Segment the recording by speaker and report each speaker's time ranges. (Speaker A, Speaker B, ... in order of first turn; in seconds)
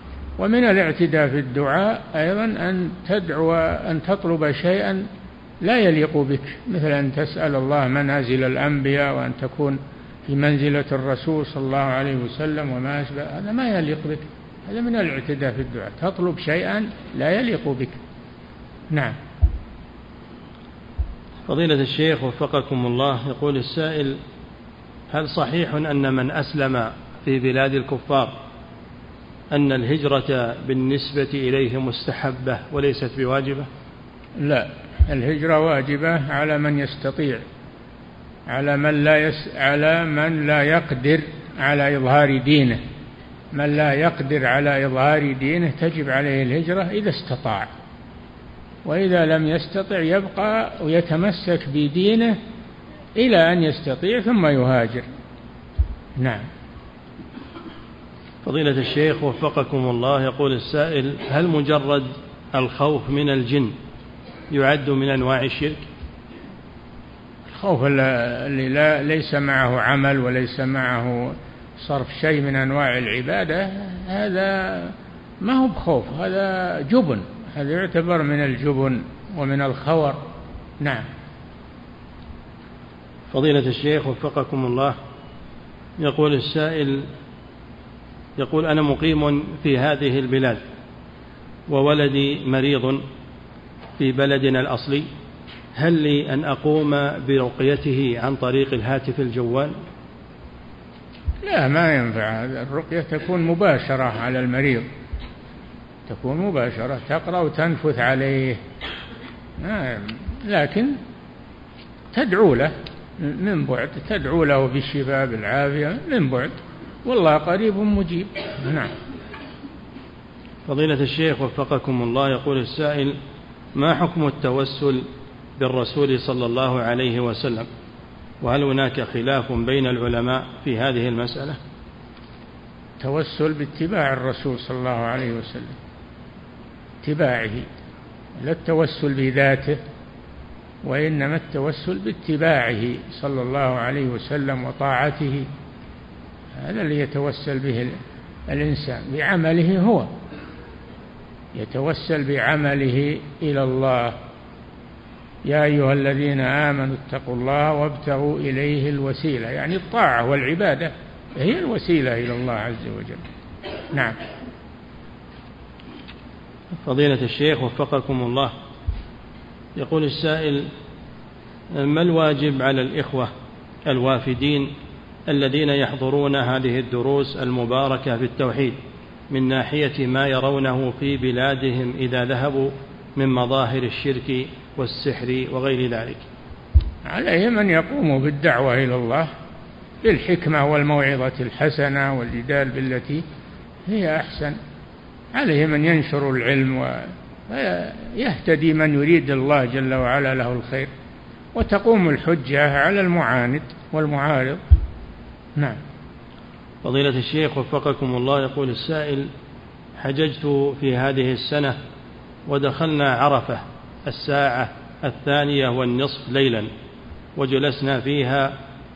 Speaker A: 0.4-5.0, 5.6-18.0, 34.4-37.4, 38.5-42.8, 43.5-47.7, 48.8-52.4, 53.1-55.0, 56.2-56.5, 67.5-80.2, 80.8-81.1, 101.4-104.9, 106.1-108.6, 109.6-111.0, 112.1-118.9, 133.0-135.8, 137.0-137.7, 138.4-139.8, 140.8-145.5, 146.5-150.1, 151.5-154.2, 155.4-163.2, 163.9-164.2, 187.0-189.3, 190.0-193.2, 193.8-194.6, 195.3-200.9, 201.5-204.6
Speaker B: 21.5-24.2, 25.1-28.3, 29.5-33.7, 58.4-63.7, 64.5-65.8, 83.3-85.0, 86.0-87.1, 88.4-90.6, 91.7-93.0, 94.0-95.1, 95.7-99.7, 120.7-123.2, 123.7-125.0, 125.6-127.7, 128.4-131.6, 166.8-168.5, 169.8-170.7, 171.7-173.3, 173.9-174.7, 175.3-178.8, 179.3-186.2, 206.8-209.3, 210.0-211.8, 212.5-216.7, 217.4-218.6